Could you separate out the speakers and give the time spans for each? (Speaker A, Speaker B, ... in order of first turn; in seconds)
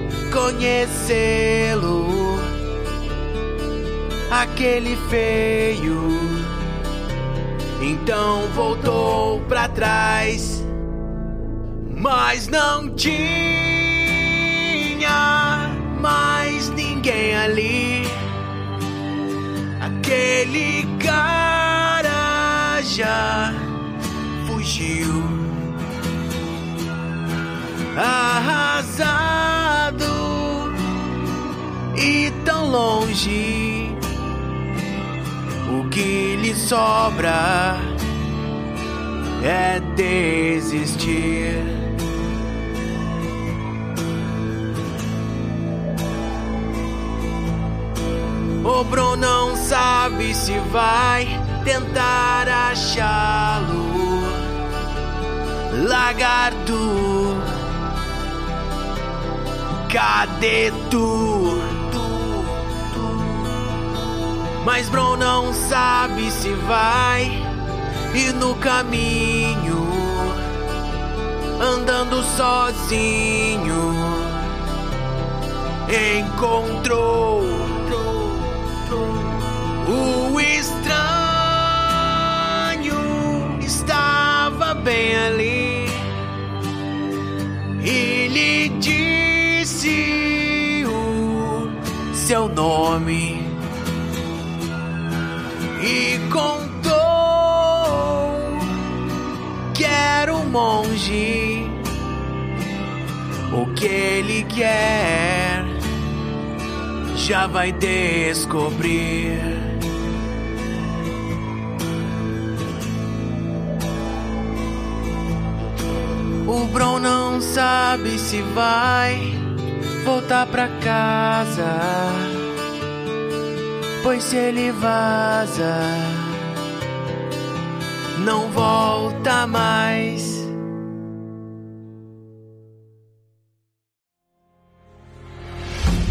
Speaker A: 0.3-2.5, 4.3-6.6, 7.8-10.7, 11.8-18.3, 19.8-23.8, 24.4-25.8, 27.9-30.8, 31.9-34.0, 35.7-38.0, 39.4-41.9, 48.6-54.5, 55.7-57.6, 59.9-63.6, 64.6-67.5, 68.1-70.4, 71.6-74.5, 75.9-86.2, 87.8-93.6, 95.8-98.7, 99.7-101.9, 103.5-105.8, 107.1-109.8, 116.5-119.5, 120.0-122.5, 124.0-126.5, 128.2-130.5